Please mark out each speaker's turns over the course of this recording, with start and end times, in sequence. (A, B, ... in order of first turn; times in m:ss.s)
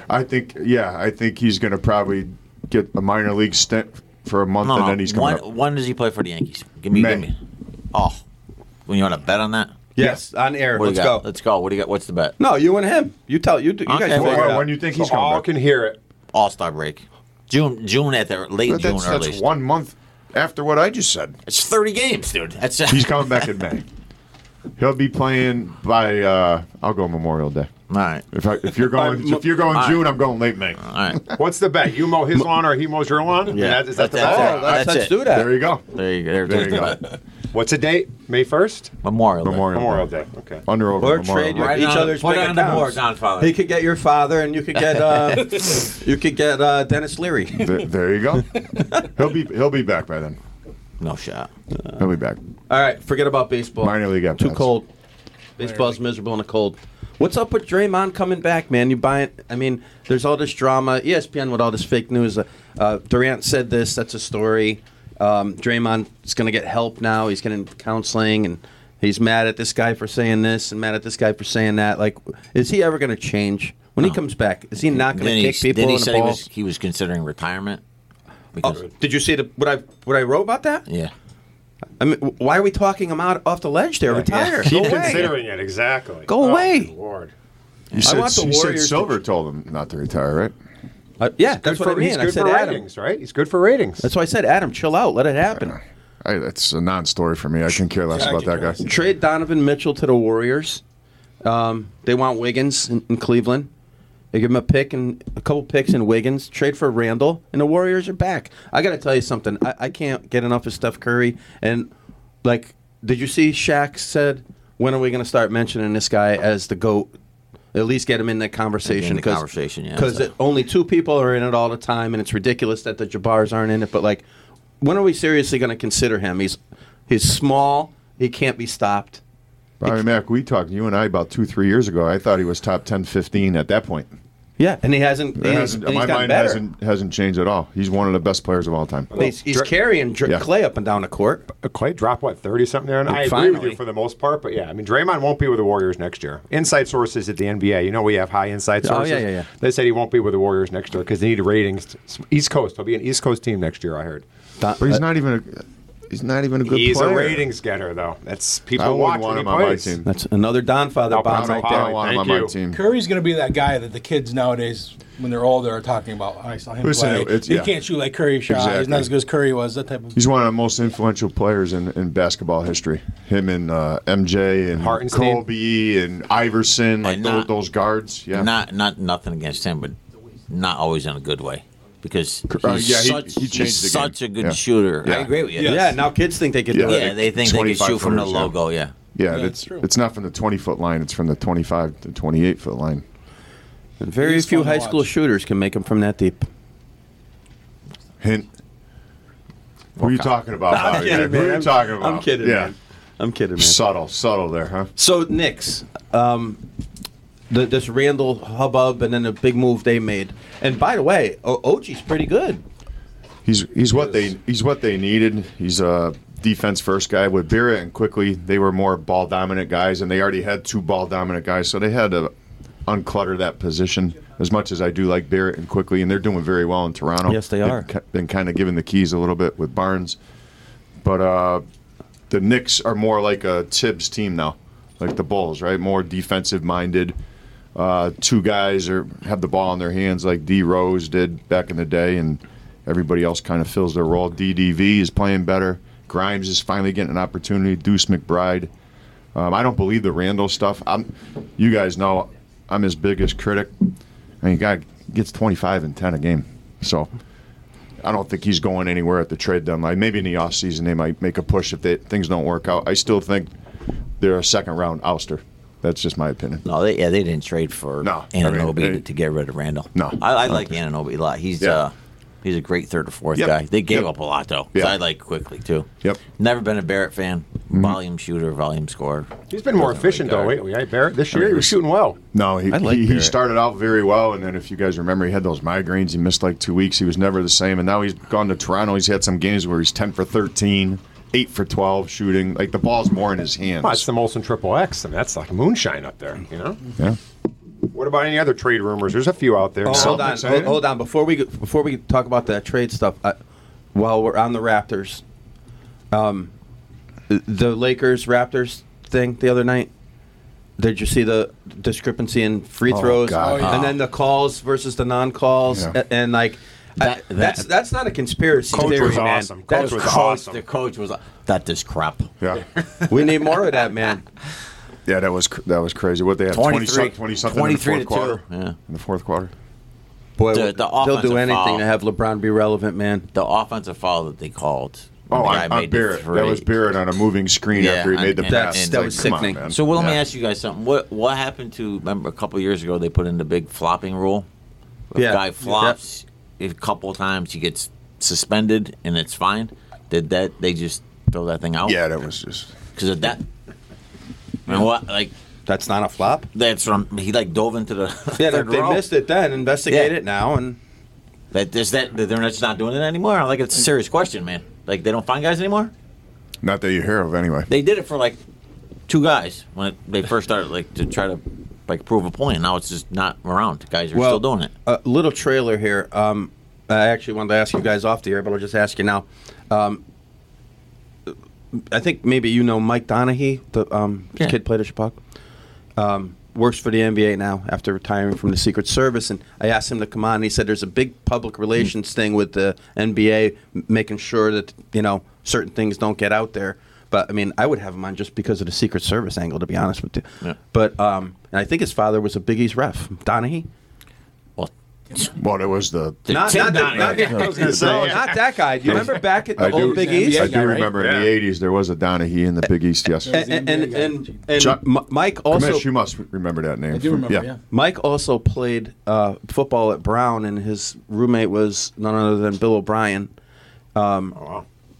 0:00.1-0:05.4 A
0:04.6-0:07.4 B
0:06.9-0:07.3 A
0:07.9-0:08.2 B
0:08.9-0:09.9 B
0:10.0-0:11.2 C
0:10.8-0:12.4 B
0:12.4-0:14.6 C
0:13.9-0:14.5 B
0:14.1-0:15.5 A
0:14.2-0:16.0 D
0:16.3-0:19.4 B
0:18.7-0:21.4 A
0:21.4-0:23.5 B
0:22.9-0:23.8 A
0:24.8-0:27.7 A
0:27.9-0:28.2 B
0:28.3-0:31.4 A
0:28.9-0:29.5 C
0:29.7-0:30.1 B
0:30.8-0:31.2 B
0:31.4-0:34.7 D
0:33.5-0:37.1 B
0:33.5-0:35.6 C
0:34.2-0:37.0 A
0:37.5-0:38.9 D
0:39.0-0:39.7 B
0:39.4-0:40.1 A
0:39.7-0:40.6 D
0:40.6-0:41.8 A
0:41.0-0:47.7 C
0:41.5-0:43.5 B
0:47.6-0:50.4 A
0:51.0-0:51.5 B
0:52.0-0:52.4 A
0:52.7-0:54.9 C
0:53.8-0:54.7 A
0:55.6-1:16.4 C
1:14.9-1:17.8 B
1:18.5-1:18.8 B
1:18.6-1:20.8 C
1:20.9-1:21.1 B
1:22.0-1:25.3 C
1:24.1-1:27.3 D
1:24.6-1:25.3 B
1:26.3-1:26.9 C
1:27.9-1:30.5 A
1:28.0-1:29.2 C
1:31.2-1:32.8 C
1:31.5-1:34.1 D
1:34.0-1:35.8 C
1:35.6-1:38.8 A
1:38.1-1:39.1 E
1:38.8-1:40.8 C
1:41.4-1:43.7 C
1:44.3-1:51.9 C
1:52.4-1:57.1 C
1:57.7-2:04.2 C
1:58.8-2:00.3 B
2:04.8-2:09.2 C
2:09.8-2:14.1 A
2:14.6-2:16.6 C
2:15.4-2:19.1 A
2:19.1-2:19.7 D
2:19.1-2:21.4 C
2:21.5-2:34.2 D
2:23.1-2:23.8 C
2:28.8-2:29.5 C
2:34.6-2:35.0 C
2:34.8-2:37.5 A
2:36.6-2:40.0 D
2:38.7-2:40.1 A
2:40.0-2:41.8 C
2:41.1-2:42.5 D
2:41.2-2:42.8 A
2:42.7-2:50.2 E
2:46.8-2:47.7 A
2:48.4-2:49.1 A
2:50.1-2:58.5 A
2:54.8-2:55.4 D
2:57.0-2:57.5 B
2:58.3-3:00.0 B
3:00.5-3:05.8 B
3:02.5-3:05.3 A
3:05.6-3:06.0 E
3:05.6-3:07.2 C
3:06.7-3:08.5 A
3:06.8-3:08.9 B
3:09.1-3:13.0 A
3:09.3-3:09.8 E
3:14.0-3:16.5 C
3:14.2-3:15.1 E
3:18.2-3:18.5 A
3:20.0-3:20.3 B
3:20.0-3:22.7 A
3:20.7-3:23.8 C
3:20.8-3:21.2 B
3:23.6-3:24.9 A
3:25.0-3:26.6 C
3:27.5-3:32.6 C
3:33.4-3:42.3 A
3:42.8-3:50.2 A
3:47.2-3:47.9 C
3:51.0-3:51.6 A
3:52.3-3:57.2 A
3:57.7-4:08.7 A
4:09.3-4:13.7 A
4:14.4-4:17.1 A
4:18.0-4:23.5 A
4:24.2-4:26.6 A
4:26.6-4:40.6 B
4:28.0-4:29.0 A
4:29.9-4:30.7 A
4:33.4-4:34.1 A
4:37.7-4:38.0 A
4:39.5-4:42.2 D
4:41.3-4:41.8 A
4:42.3-4:54.0 A
4:42.7-4:43.3 C
4:53.8-4:56.8 D
4:57.9-5:00.3 D
4:59.8-5:03.4 C
4:59.8-5:00.8 A
5:03.9-5:05.2 C
5:06.1-5:06.5 C
5:07.3-5:09.9 C
5:10.8-5:20.1 C
5:12.9-5:13.7 A
5:13.4-5:13.8 E
5:13.6-5:13.9 B
5:15.7-5:15.9 A
5:17.0-5:17.6 B
5:18.7-5:20.6 D
5:19.7-5:22.3 B
5:23.1-5:24.2 C
5:25.0-5:29.5 A
5:26.5-5:28.8 B
5:30.4-5:33.3 C
5:30.5-5:31.8 B
5:33.3-5:36.6 B
5:35.3-5:40.2 A
5:37.7-5:44.5 B
5:38.4-5:39.6 C
5:45.1-5:52.0 B
5:45.1-5:46.0 C
5:51.8-5:52.7 A
5:53.0-5:53.4 B
5:54.7-5:55.3 B
5:55.7-5:56.5 C
5:56.5-5:59.0 B
5:58.4-6:00.8 C
5:59.9-6:00.1 B
6:01.5-6:05.9 B
6:06.6-6:07.7 A
6:07.7-6:08.4 B
6:09.1-6:14.7 B
6:14.1-6:20.0 C
6:21.3-6:25.2 C
6:26.0-6:43.7 C
6:44.6-6:45.3 B
6:45.4-6:48.3 A
6:46.2-6:47.7 B
6:46.3-6:50.5 C
6:47.1-6:48.3 D
6:48.8-6:53.4 A
6:49.6-6:50.9 E
6:50.9-6:51.3 D
6:53.2-6:54.3 E
6:53.3-6:55.9 C
6:54.6-6:54.8 A
6:55.5-6:57.5 A
6:56.9-6:57.6 E
6:57.7-7:03.3 C
7:03.9-7:04.4 C
7:04.3-7:04.6 D